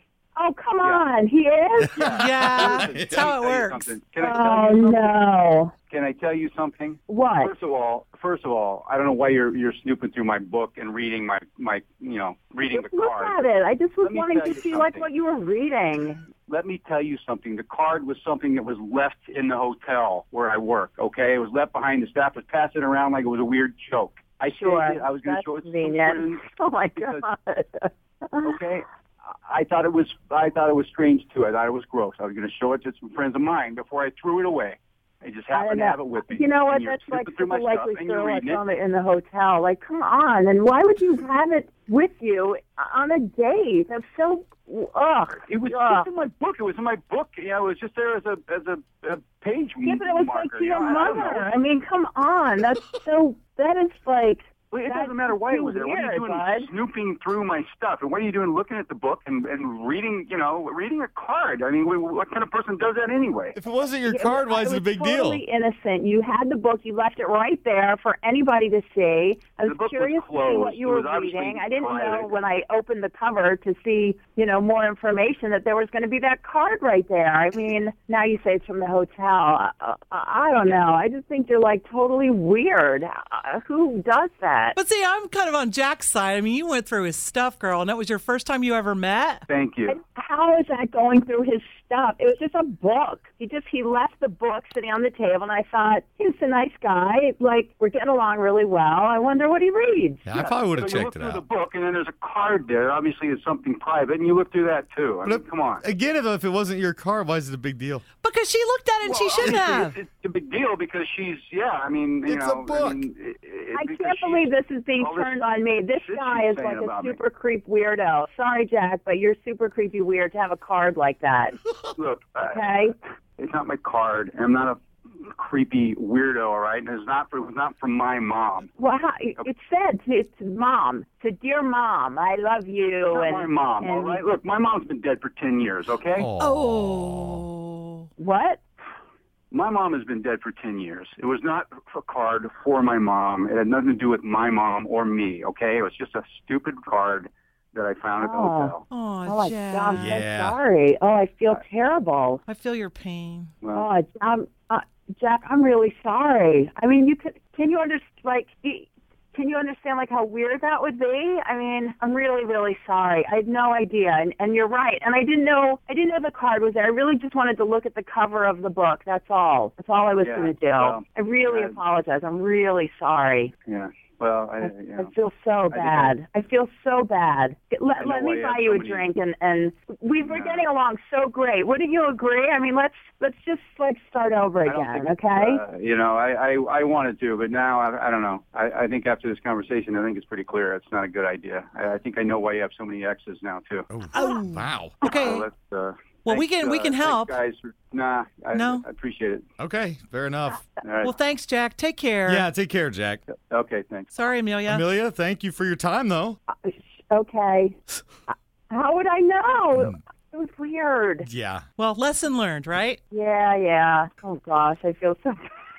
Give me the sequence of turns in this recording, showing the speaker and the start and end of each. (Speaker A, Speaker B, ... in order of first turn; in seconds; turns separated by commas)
Speaker A: 0.3-1.9, Speaker B: 1.9-5.1, Speaker C: 2.0-3.3, Speaker D: 2.1-3.9, Speaker A: 4.2-5.7, Speaker B: 5.9-13.4, Speaker A: 7.1-7.5, Speaker A: 12.7-16.2, Speaker B: 14.0-15.1, Speaker B: 16.4-26.4, Speaker A: 24.5-28.6, Speaker B: 27.0-27.2, Speaker B: 28.4-38.6, Speaker A: 35.5-46.1, Speaker B: 45.5-51.5, Speaker A: 49.8-56.7, Speaker B: 54.7-63.5, Speaker C: 63.5-65.4, Speaker A: 64.1-84.8, Speaker B: 69.7-72.4, Speaker D: 84.8-89.4, Speaker B: 89.5-90.0, Speaker A: 89.9-100.3, Speaker C: 100.2-101.4, Speaker B: 100.3-105.8, Speaker C: 105.2-108.0, Speaker D: 108.2-110.0, Speaker B: 109.0-115.3, Speaker C: 112.2-113.0, Speaker A: 113.7-121.5, Speaker B: 116.0-117.2, Speaker B: 122.0-122.6, Speaker A: 122.5-122.9, Speaker B: 123.4-128.7, Speaker A: 128.8-134.2, Speaker B: 133.1-136.3, Speaker C: 136.2-137.4, Speaker D: 136.4-138.1, Speaker A: 138.2-138.6, Speaker B: 139.5-148.8, Speaker A: 148.2-148.7, Speaker D: 148.9-150.1, Speaker A: 149.2-152.4, Speaker C: 150.0-150.6, Speaker D: 152.5-153.5, Speaker A: 153.7-173.5, Speaker B: 170.2-171.8, Speaker B: 173.7-175.1, Speaker A: 174.7-185.6, Speaker B: 175.7-176.2, Speaker B: 178.0-179.0, Speaker B: 180.2-180.7, Speaker B: 184.6-193.9, Speaker C: 193.9-195.0, Speaker D: 194.1-195.4, Speaker B: 195.0-199.4, Speaker D: 196.2-197.4, Speaker D: 198.5-198.8, Speaker C: 199.6-200.7, Speaker B: 200.8-201.1, Speaker D: 201.0-202.4, Speaker C: 202.2-203.2, Speaker B: 203.3-204.1, Speaker D: 204.1-204.8, Speaker C: 204.7-206.4, Speaker A: 206.5-207.8, Speaker A: 208.3-211.3, Speaker C: 211.2-211.6, Speaker D: 211.8-213.0, Speaker A: 213.1-215.4